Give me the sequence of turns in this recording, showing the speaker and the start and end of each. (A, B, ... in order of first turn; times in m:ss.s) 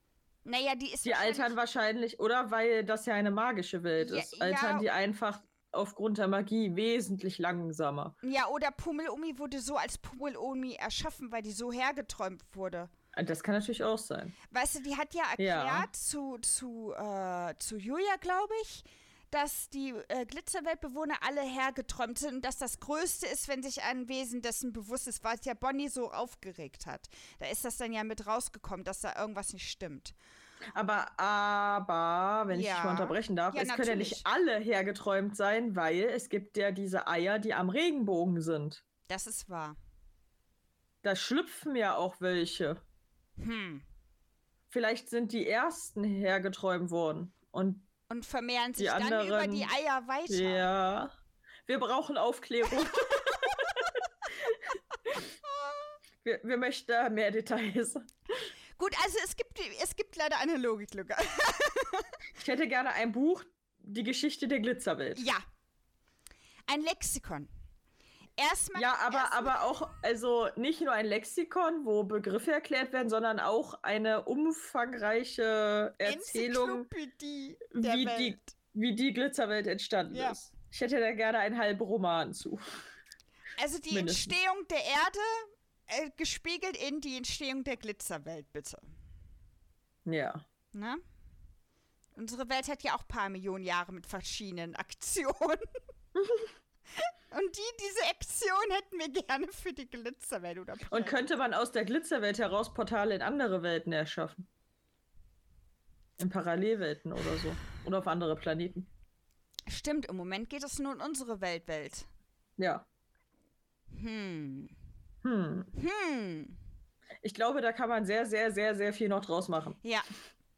0:00.4-0:01.5 A
0:01.0-0:08.2 B
0:04.0-0:04.9 A
0:08.2-0:12.9 A
0:13.2-0:14.3 B
0:14.5-0:30.2 A
0:15.4-0:15.9 B
0:30.8-0:38.8 B
0:32.5-0:34.3 A
0:39.1-0:39.8 A
0:41.0-0:42.8 B
0:43.4-0:43.8 A
0:44.7-0:47.9 B
0:48.1-0:50.7 A
0:48.8-0:49.7 B
0:50.3-0:51.2 B
0:51.7-0:54.6 B
0:52.8-0:53.9 A
0:55.1-0:55.9 A
0:56.2-0:58.4 B
0:58.8-1:02.2 A
1:02.4-1:05.2 B
1:05.2-1:05.4 A
1:06.7-1:07.5 A
1:08.4-1:09.7 A
1:08.8-1:16.9 B
1:16.0-1:18.6 A
1:17.7-1:22.7 B
1:20.1-1:20.4 A
1:23.6-1:28.8 A
1:23.9-1:24.3 B
1:30.0-1:30.4 B
1:30.7-1:31.0 A
1:32.2-1:35.7 A
1:37.0-1:41.2 A
1:40.9-1:44.5 B
1:46.2-1:48.9 B
1:49.7-1:52.1 A
1:52.6-1:52.8 B
1:53.9-1:54.8 A
1:55.2-1:55.7 B
1:55.7-1:56.6 A
1:57.2-1:59.8 B
1:59.8-2:00.1 A